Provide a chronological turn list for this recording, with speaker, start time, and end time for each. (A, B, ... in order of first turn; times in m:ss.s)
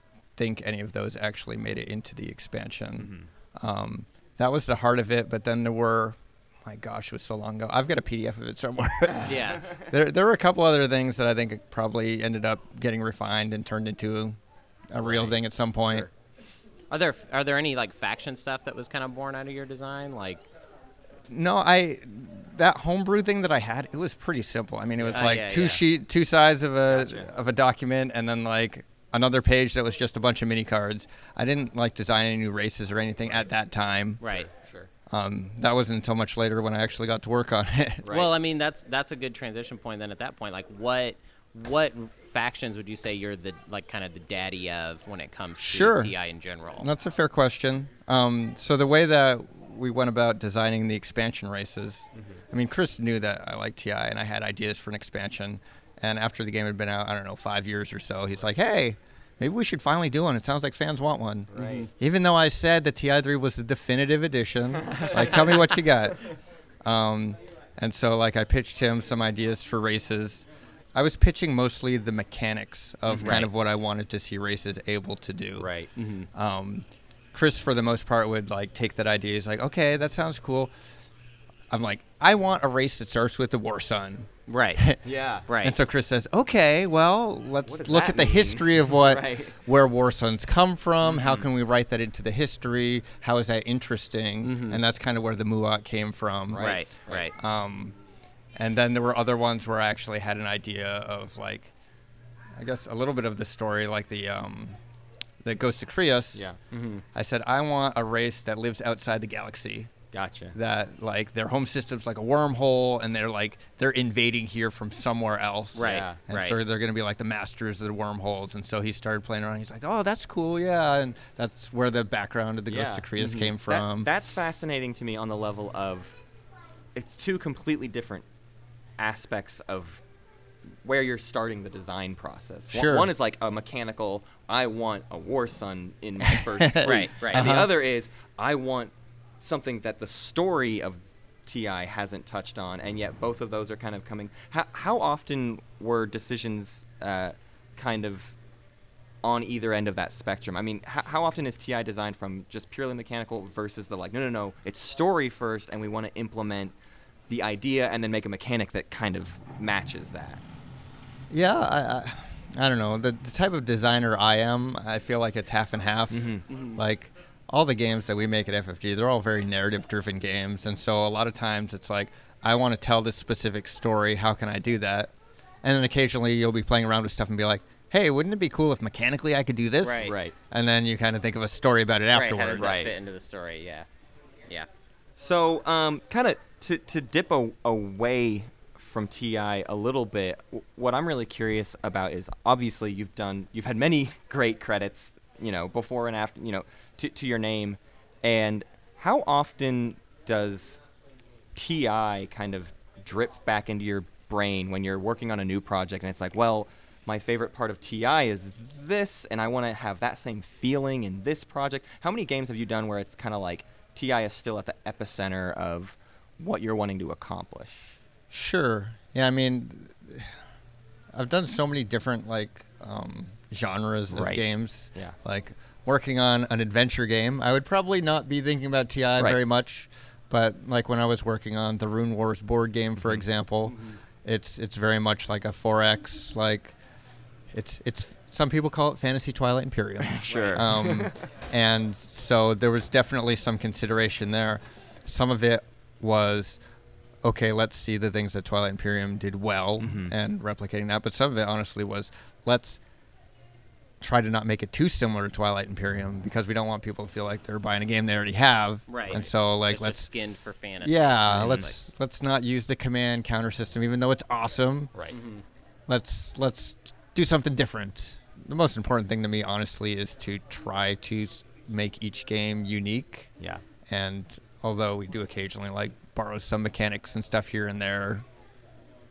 0:00.4-0:14.4 A
0:03.0-0:03.3 B
0:09.2-0:09.9 B
0:09.3-0:09.7 C
0:14.9-0:16.1 A
0:15.0-0:15.3 B
0:16.9-0:20.4 C
0:21.3-0:34.2 A
0:25.0-0:25.3 B
0:25.1-0:25.8 C
0:26.9-0:27.3 B
0:34.2-0:34.5 C
0:34.6-0:34.9 B
0:35.1-0:38.1 A
0:38.0-0:38.3 B
0:38.1-0:46.9 C
0:45.6-0:46.1 A
0:46.8-1:06.3 A
1:01.5-1:01.9 B
1:01.6-1:01.9 C
1:04.8-1:05.7 B
1:06.8-1:15.7 A
1:13.1-1:13.4 B
1:13.2-1:13.5 C
1:15.6-1:15.9 B
1:16.0-1:16.3 C
1:16.3-1:20.7 A
1:21.7-1:25.0 A
1:24.5-1:24.8 C
1:25.0-1:25.5 B
1:25.5-1:25.8 C
1:25.5-1:36.7 A
1:27.7-1:29.5 B
1:31.1-1:31.4 B
1:34.4-1:34.8 C
1:36.5-1:37.3 B
1:36.6-1:37.3 C
1:37.4-1:38.0 A
1:38.6-1:41.7 A
1:42.6-1:44.8 A
1:45.4-1:46.5 A
1:46.4-1:47.0 B
1:47.1-1:49.9 A
1:50.1-1:50.6 B
1:50.5-2:04.1 A
1:55.8-1:56.6 C
1:55.8-1:56.2 B
2:02.7-2:03.1 B
2:03.2-2:03.5 C
2:03.7-2:06.2 B
2:07.0-2:08.3 B
2:09.0-2:10.0 B
2:10.8-2:28.4 B
2:12.7-2:13.1 A
2:16.3-2:17.7 A
2:16.8-2:17.6 C
2:29.2-2:36.8 B
2:37.3-2:40.4 B
2:41.3-2:55.1 A
2:46.1-2:46.4 B
2:46.5-2:46.8 C
2:55.6-3:02.8 A
2:59.8-3:00.1 C
3:00.0-3:00.3 B
3:02.1-3:03.9 C
3:02.6-3:02.9 B
3:05.2-3:20.8 B
3:21.6-3:38.0 B
3:38.3-3:40.4 A
3:41.1-3:56.8 A
3:44.1-3:44.4 B
3:53.7-3:54.0 C
3:57.5-4:06.6 A
4:00.0-4:01.2 B
4:00.3-4:00.7 C
4:07.2-4:12.8 A
4:09.8-4:10.1 B
4:14.0-4:20.1 A
4:18.9-4:21.7 C
4:20.8-4:24.9 A
4:21.3-4:21.7 B
4:25.1-4:25.4 C
4:25.9-4:33.3 A
4:33.9-4:38.3 A